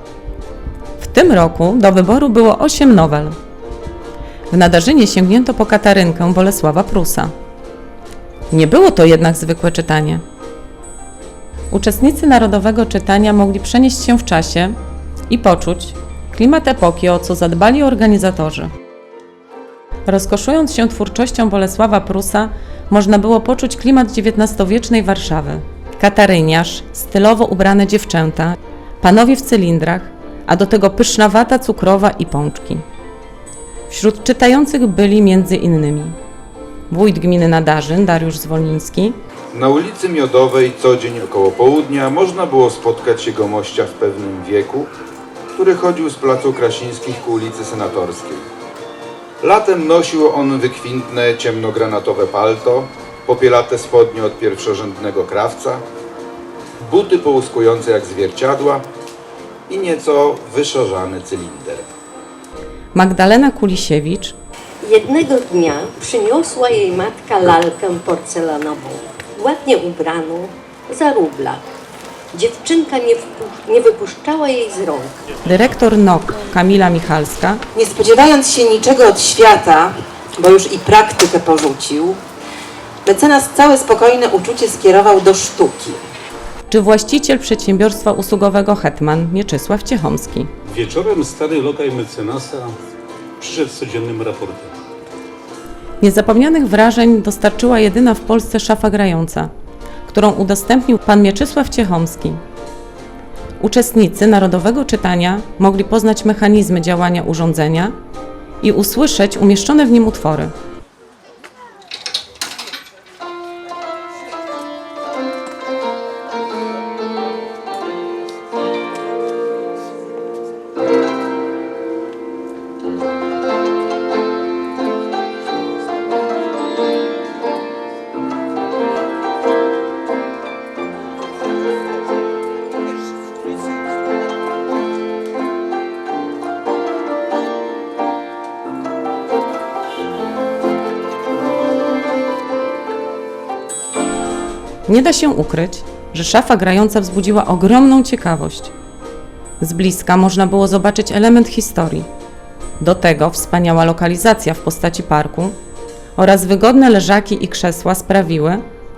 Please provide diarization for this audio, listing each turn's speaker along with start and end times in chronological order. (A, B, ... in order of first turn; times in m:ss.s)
0:01.0-0:03.3 A
0:04.5-0:07.3 A
0:08.5-0:10.2 A
0:11.7-0:14.8 A
0:15.3-0:18.7 A
0:20.1-0:32.8 A
0:33.9-0:36.1 A
0:36.9-0:39.2 A
0:39.5-0:44.9 B
0:45.6-0:48.5 B
0:49.4-0:55.8 B
0:56.8-0:58.8 B
0:59.7-1:01.9 B
1:02.9-1:04.3 A
1:04.8-1:11.6 C
1:12.3-1:15.3 C
1:15.4-1:17.6 A
1:17.7-1:22.2 D
1:23.0-1:26.0 D
1:26.7-1:30.5 A
1:30.6-1:32.7 E
1:33.4-1:34.7 E
1:36.0-1:39.5 A
1:40.0-1:42.4 A
1:43.6-1:47.9 A
1:48.6-1:50.5 A
2:24.8-2:28.7 A
2:29.6-2:32.1 A
2:32.8-2:35.5 A
2:36.2-2:38.6 A